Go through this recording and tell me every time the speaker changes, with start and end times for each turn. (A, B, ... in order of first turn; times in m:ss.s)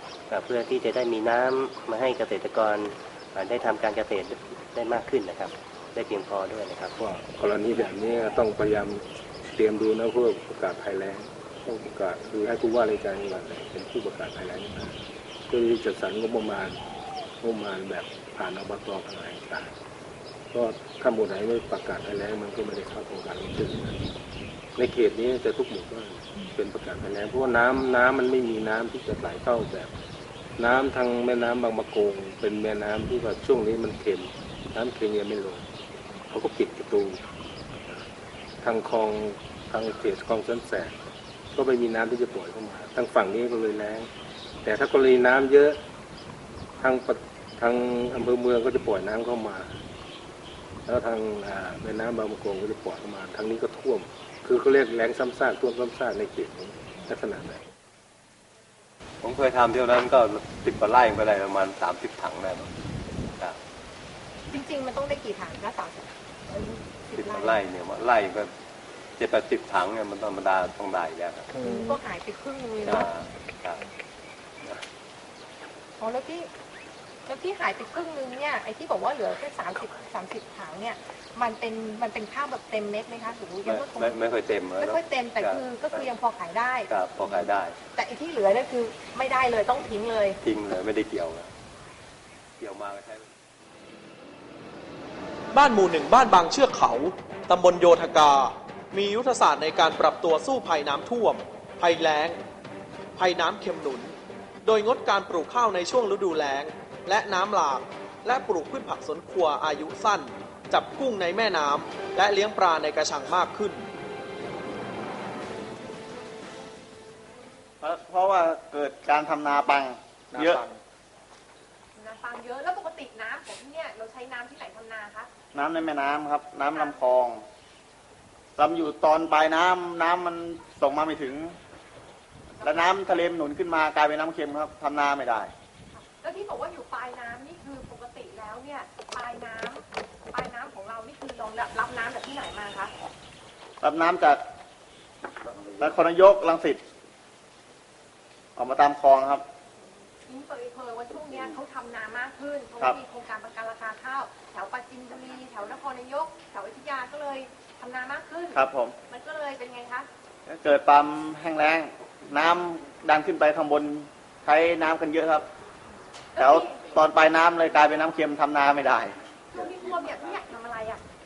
0:00.3-0:06.9 A
0:07.0-0:15.0 B
0:15.5-0:16.8 B
0:17.4-0:19.7 B
0:20.5-0:24.0 B
0:24.8-0:29.9 B
0:30.6-0:35.7 B
0:36.2-0:37.2 B
0:38.6-0:41.0 B
0:41.5-0:44.1 B
0:44.6-0:45.8 B
0:46.8-0:49.7 B
0:50.8-0:57.6 B
0:59.2-1:02.7 C
1:04.5-1:07.6 D
1:07.1-1:08.5 C
1:09.2-1:12.0 C
1:11.6-1:13.1 D
1:12.8-1:13.8 C
1:16.0-1:16.5 D
1:17.3-1:24.2 D
1:23.6-1:26.1 C
1:24.8-1:30.4 D
1:26.9-1:27.8 C
1:30.4-1:31.5 C
1:32.6-1:33.3 C
1:35.5-1:42.4 E
1:43.2-1:53.9 E
1:57.8-2:00.8 F
2:00.3-2:00.6 E
2:02.0-2:05.3 D
2:05.5-2:07.4 F
2:06.7-2:07.0 D
2:08.6-2:11.6 F
2:12.6-2:15.5 F
2:12.6-2:12.9 D
2:15.9-2:22.9 D
2:23.8-2:24.4 F
2:25.6-2:26.8 F
2:28.6-2:29.4 F
2:30.3-2:40.1 D
2:38.5-2:38.9 F
2:40.5-2:45.5 F
2:46.4-2:46.8 D
2:46.4-2:49.1 F
2:49.5-2:51.0 D